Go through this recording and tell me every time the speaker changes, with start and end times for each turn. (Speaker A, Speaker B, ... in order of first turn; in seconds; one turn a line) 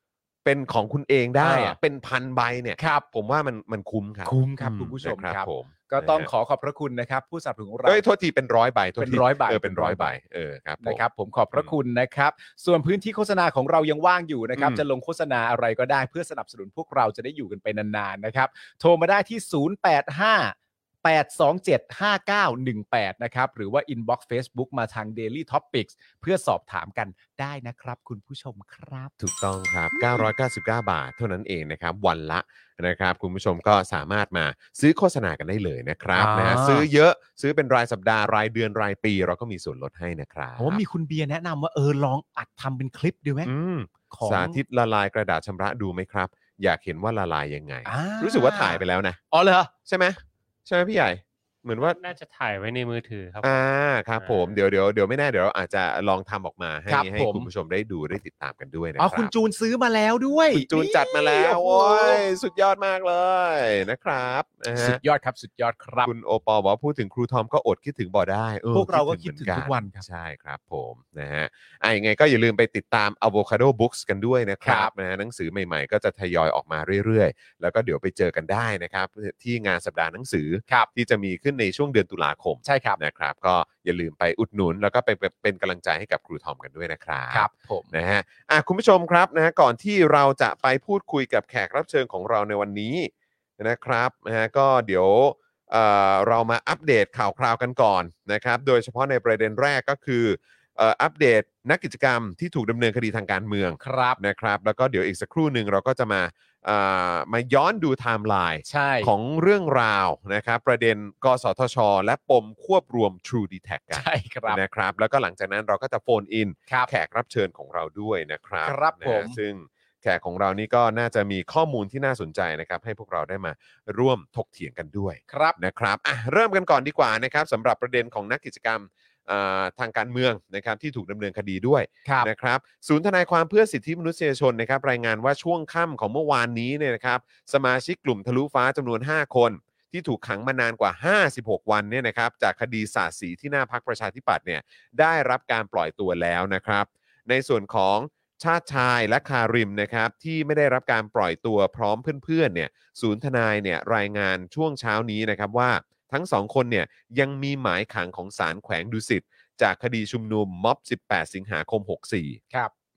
Speaker A: 0.4-6.3
Speaker B: 1.4-1.8
Speaker B: 2.8-3.0
Speaker B: 4.2-8.0
Speaker A: 7.8-11.0
Speaker B: 9.0-10.1
Speaker B: 10.8-29.1
Speaker A: 14.6-14.8
Speaker A: 29.2-40.8
Speaker B: 36.1-36.9
Speaker B: 40.6-43.5
Speaker A: 43.4-49.2
Speaker B: 44.1-44.6
Speaker B: 47.9-49.7
Speaker A: 49.9-52.0
Speaker C: 51.8-53.5
Speaker A: 53.4-59.3
Speaker C: 54.2-54.6
Speaker B: 56.9-57.5
Speaker B: 59.0-62.2
Speaker A: 60.5-65.0
Speaker B: 64.7-66.1
Speaker A: 66.0-162.4
Speaker B: 68.7-70.0
Speaker B: 74.6-74.9
Speaker B: 82.6-83.0
Speaker B: 87.3-87.9
Speaker B: 103.8-104.2
Speaker B: 108.7-109.1
Speaker B: 113.9-114.6
Speaker B: 118.6-119.4
Speaker B: 125.3-125.6